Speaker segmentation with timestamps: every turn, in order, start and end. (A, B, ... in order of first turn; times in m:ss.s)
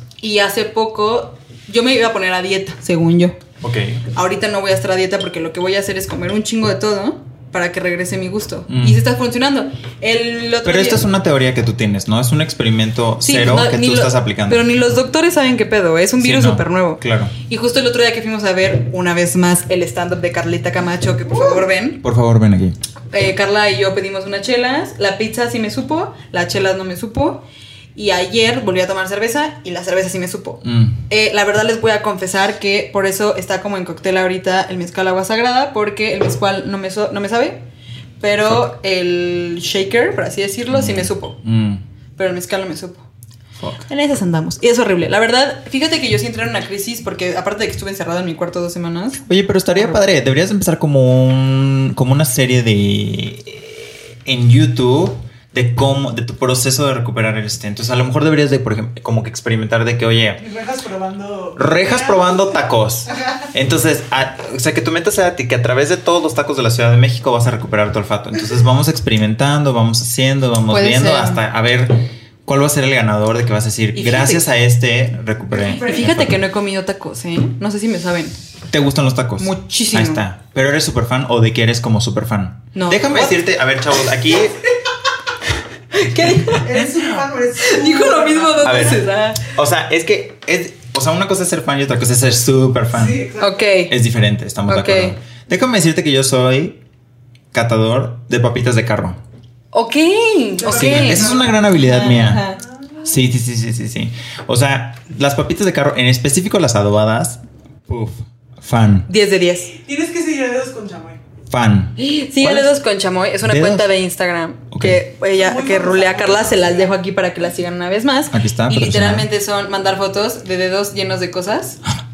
0:00.2-0:03.4 A
0:03.6-0:04.0 B
0:04.1-0:11.0 A
0:08.7-0:09.0 B
0:10.6-0:14.7 B
0:13.2-0:22.0 A
0:16.2-0:17.3 B
0:22.0-0:22.8 B
0:23.1-0:27.4 A
0:28.0-0:37.6 A
0:30.6-0:31.0 B
0:38.2-0:41.4 A
0:40.7-0:41.8 B
0:42.2-0:43.0 A
0:43.6-0:43.9 B
0:43.9-0:49.2 A
0:49.2-1:00.4 B
1:00.4-1:03.5 C
1:01.6-1:12.0 B
1:10.7-1:11.4 A
1:12.5-1:16.4 B
1:13.9-1:14.4 A
1:15.6-1:16.1 C
1:15.7-1:18.4 A
1:18.7-1:24.6 B
1:19.4-1:20.2 A
1:22.8-1:23.4 A
1:25.9-1:26.8 A
1:26.1-1:26.6 B
1:26.5-1:29.0 C
1:27.6-1:29.5 A
1:28.6-1:33.2 B
1:32.9-1:33.6 C
1:33.4-1:33.9 A
1:33.9-1:36.8 B
1:34.7-1:35.2 A
1:37.5-1:39.2 B
1:39.7-1:42.6 A
1:40.6-1:41.6 C
1:40.7-1:42.4 B
1:43.0-1:49.1 B
1:49.1-1:49.8 A
1:49.7-1:51.2 C
1:51.5-1:52.7 B
1:52.0-2:01.8 A
1:53.4-1:53.9 B
1:54.7-1:55.0 B
1:55.4-1:56.9 C
1:58.3-1:59.3 B